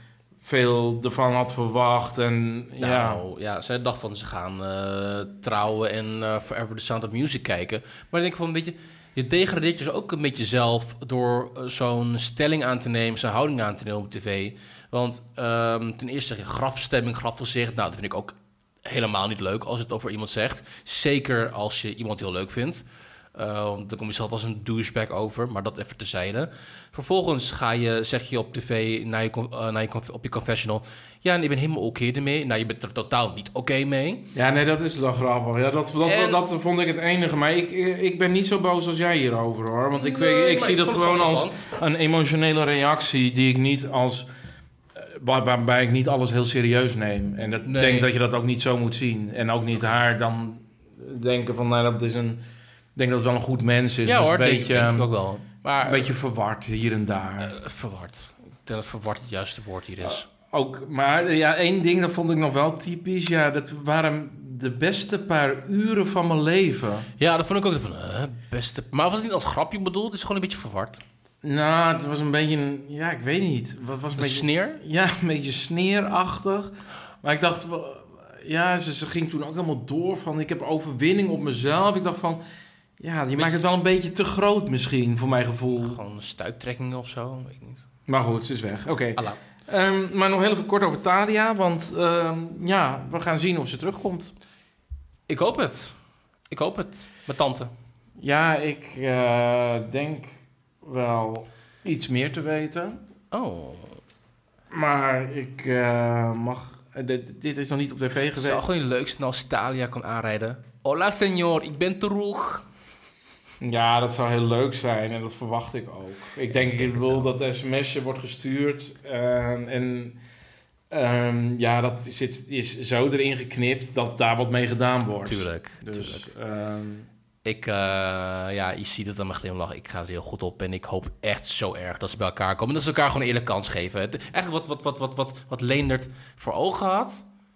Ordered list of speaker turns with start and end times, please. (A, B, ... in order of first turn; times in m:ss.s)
0:00.4-0:03.2 A
0:02.8-0:34.3 B
0:34.3-0:44.3 A
0:36.0-0:36.4 B
0:40.0-0:41.6 B
0:45.0-0:52.4 A
0:47.6-0:48.1 B
0:53.0-0:55.1 A
0:54.0-0:56.1 B
0:55.8-0:57.5 A
0:57.4-1:00.2 B
1:00.0-1:07.1 A
1:07.2-1:11.0 B
1:11.4-1:22.4 A
1:14.2-1:14.8 B
1:23.0-1:26.0 A
1:23.4-1:23.6 B
1:25.7-1:27.8 B
1:28.1-1:34.3 A
1:35.3-1:35.9 B
1:36.5-1:37.7 B
1:38.2-1:43.0 A
1:43.3-1:44.0 B
1:44.7-1:48.6 A
1:48.3-1:52.6 B
1:53.6-2:00.2 A
1:56.5-1:57.3 B
2:00.9-2:07.1 A
2:05.2-2:06.3 B
2:07.4-2:17.2 B